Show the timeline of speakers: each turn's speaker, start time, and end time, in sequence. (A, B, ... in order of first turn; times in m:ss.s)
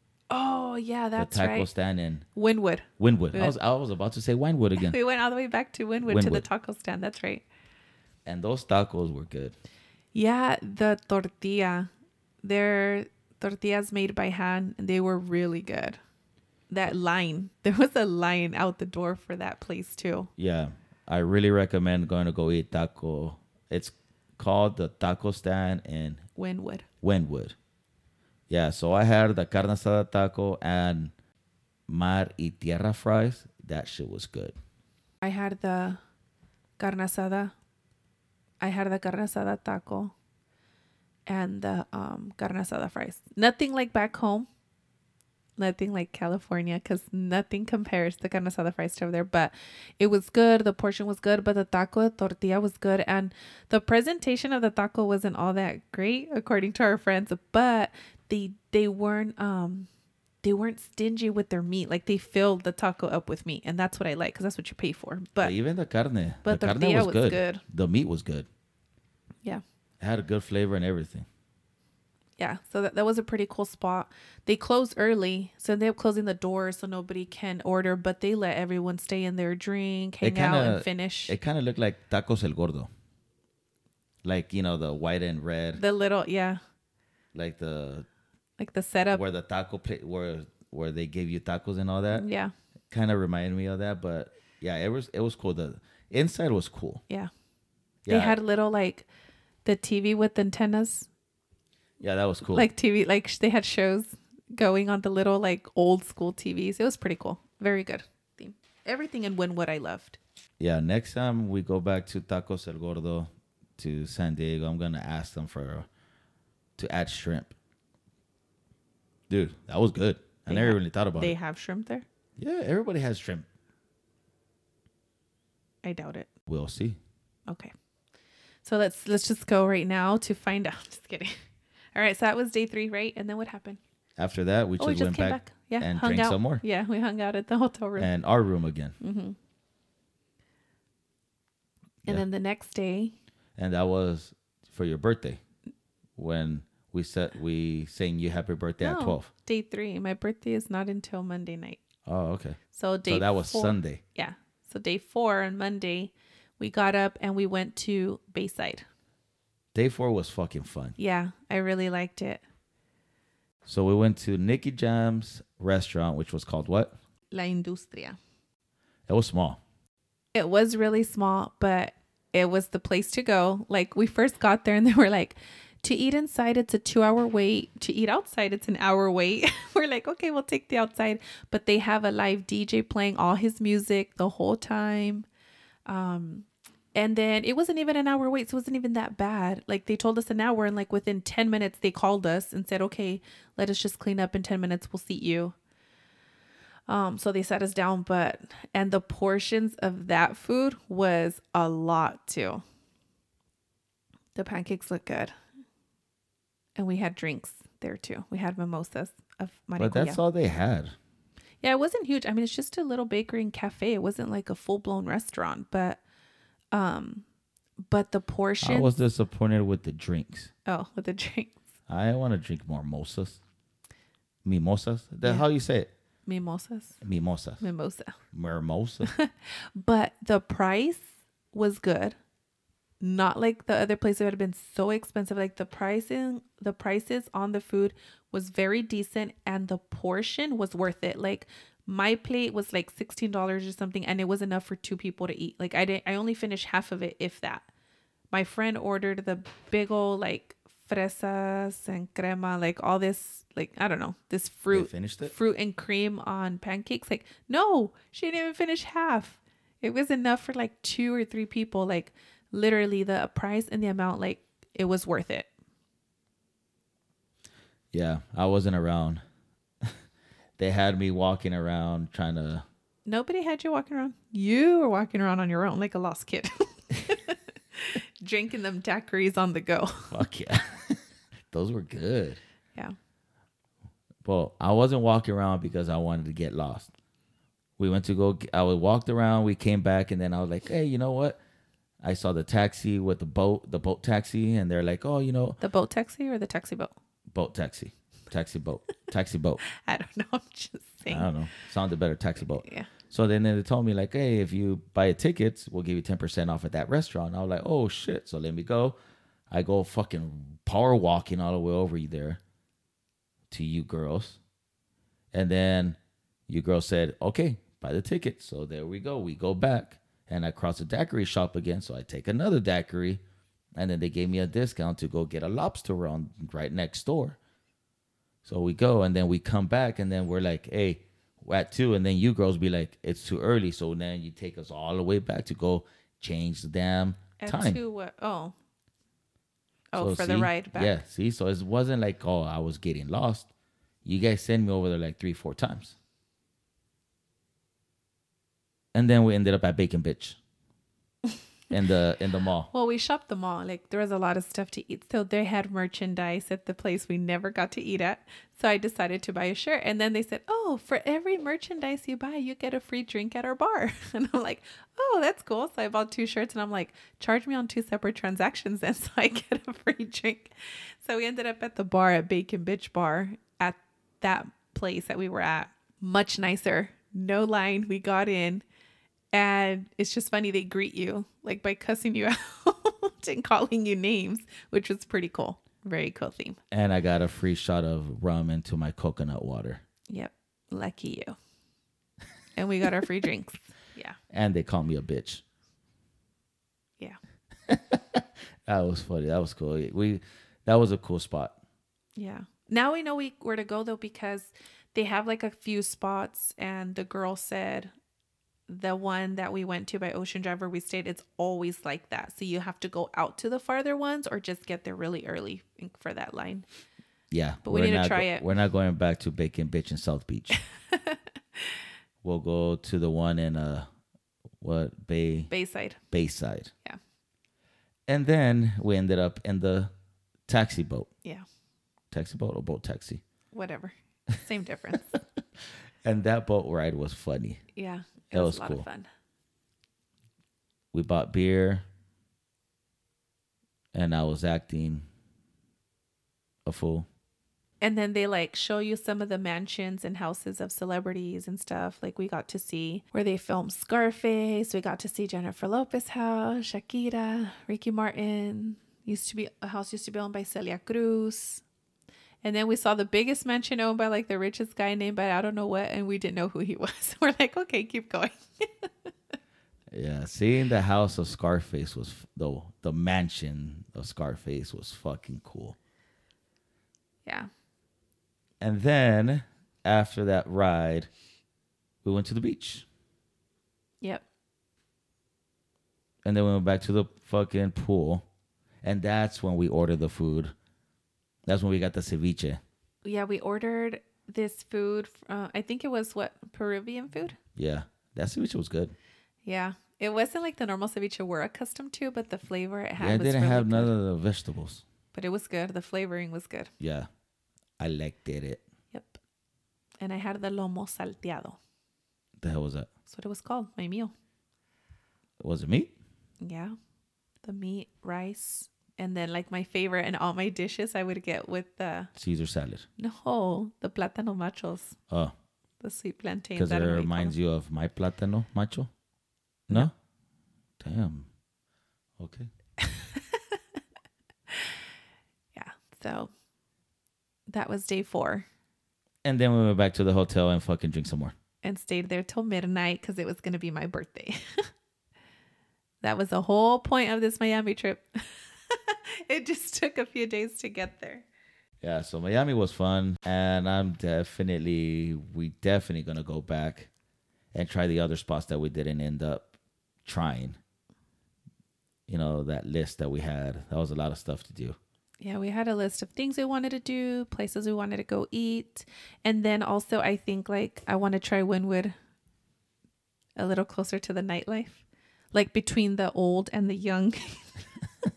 0:00.3-0:01.7 A
0:01.2-0:02.2 B
0:02.4-0:03.6 A
0:03.0-0:05.0 B
0:04.8-0:07.4 A
0:06.0-0:06.4 B
0:08.3-0:09.6 B
0:10.1-0:11.9 A
0:12.4-0:16.0 A
0:16.7-0:20.3 A
0:20.4-0:26.2 B
0:26.4-0:26.9 A
0:27.0-0:27.6 B
0:28.5-0:31.1 B
0:31.9-0:34.6 B
0:35.2-0:36.0 A
0:36.8-0:37.5 A
0:38.6-0:40.1 A
0:41.3-0:44.5 A
0:45.6-0:59.9 A
1:00.4-1:05.6 A
1:05.4-1:08.5 B
1:06.4-1:07.6 A
1:10.0-1:11.3 B
1:12.4-1:21.4 A
1:20.2-1:22.9 B
1:24.2-1:25.8 B
1:25.8-1:26.6 A
1:27.3-1:28.1 B
1:28.6-1:29.2 A
1:29.1-1:32.2 B
1:32.1-1:32.5 A
1:32.9-1:37.0 B
1:38.1-1:38.4 B
1:38.1-1:39.1 A
1:39.6-1:41.1 A
1:42.0-1:42.7 B
1:42.5-1:50.2 A
1:50.6-1:55.9 B
1:56.8-1:57.6 B
1:59.3-2:01.4 B
2:00.5-2:02.0 A
2:02.4-2:03.5 B
2:05.8-2:06.3 A
2:06.5-2:07.0 B
2:08.6-2:11.4 A
2:11.9-2:13.8 A
2:14.2-2:16.6 B
2:14.8-2:18.1 A
2:18.0-2:19.0 B
2:19.0-2:19.4 A
2:22.1-2:23.1 A
2:23.6-2:25.4 B
2:26.2-2:29.3 B
2:28.8-2:31.8 A
2:32.1-2:34.0 B
2:32.7-2:38.9 A
2:39.8-2:41.0 B
2:41.0-2:42.4 A
2:43.7-2:46.9 B
2:47.3-2:48.2 A
2:49.1-2:49.6 B
2:50.3-3:05.3 A
3:05.9-3:15.6 A
3:16.9-3:22.6 A
3:24.4-3:25.3 A
3:26.8-3:30.2 A
3:29.8-3:31.0 B
3:31.6-3:36.0 A
3:36.7-3:37.2 A
3:37.8-3:38.9 A
3:38.6-3:40.5 B
3:40.7-3:41.6 A
3:41.9-3:43.4 B
3:44.4-3:45.9 B
3:46.3-3:47.0 A
3:47.0-3:47.6 B
3:47.6-3:48.2 A
3:48.3-3:49.1 B
3:49.0-3:52.2 A
3:53.0-4:07.7 A
4:08.3-4:25.5 A
4:14.7-4:15.3 B
4:27.9-4:29.2 B
4:30.6-4:32.6 B
4:33.1-4:40.2 A
4:40.1-4:41.0 B
4:41.5-4:42.4 B
4:44.2-4:46.9 B
4:47.8-4:51.4 B
4:52.0-4:55.6 B
4:55.6-4:56.9 A
4:57.3-4:59.6 B
4:59.7-5:01.3 A
5:01.1-5:09.0 B
5:02.6-5:02.9 A
5:09.5-5:12.4 B
5:13.5-5:14.4 B
5:15.3-5:23.2 B
5:23.8-5:27.4 B
5:28.4-5:37.8 B
5:37.4-5:38.6 A
5:39.9-5:41.0 A
5:40.0-5:43.5 B
5:44.0-5:46.0 B
5:48.9-5:50.4 B
5:51.7-5:52.7 B
5:52.7-6:18.6 A
6:19.3-6:26.6 A
6:26.7-6:29.8 B
6:30.1-6:31.4 A
6:32.6-6:34.2 A
6:34.3-6:35.4 B
6:37.7-6:41.6 B
6:42.2-6:47.9 A
6:48.7-6:56.6 A
6:57.3-7:00.6 B
6:57.6-6:58.5 A
7:00.8-7:01.8 A
7:02.2-7:03.9 B
7:04.6-7:05.5 B
7:05.5-7:06.0 A
7:06.1-7:06.7 B
7:08.1-7:09.9 B
7:10.5-7:11.1 B
7:12.1-7:13.2 B
7:13.5-7:15.2 A
7:16.0-7:17.6 B
7:17.8-7:19.1 A
7:18.3-7:18.9 B
7:20.9-7:21.8 B
7:23.9-7:25.0 B
7:26.7-7:27.1 B
7:27.8-7:41.6 A
7:42.4-7:49.1 A
7:49.9-7:55.8 B
7:58.6-8:01.1 B
8:02.0-8:02.9 B
8:06.2-8:08.2 B
8:08.8-8:10.5 B
8:11.5-8:12.6 B
8:13.0-8:17.4 A
8:17.6-8:19.0 B
8:19.4-8:23.9 A
8:23.0-8:24.8 B
8:25.1-8:26.7 A
8:26.8-8:27.1 B
8:27.8-8:28.6 B
8:28.9-8:29.2 A
8:30.0-8:31.6 A
8:32.4-8:32.9 B
8:33.1-8:34.1 A
8:35.4-8:35.9 B
8:36.4-8:36.8 A
8:37.4-8:42.1 A
8:42.2-8:42.9 B
8:43.0-8:45.0 A
8:45.8-8:47.4 A
8:46.6-8:48.9 B
8:50.8-8:51.3 B
8:52.2-8:52.5 B
8:52.8-8:53.8 A
8:54.5-8:54.8 A
8:55.5-8:56.3 A
8:57.5-8:58.5 A
8:59.2-9:01.3 B
9:01.6-9:04.7 A
9:06.0-9:11.3 A
9:11.8-9:16.9 B
9:17.5-9:19.5 B
9:20.0-9:20.6 B
9:22.1-9:24.8 B
9:25.2-9:31.9 A
9:33.4-9:37.6 A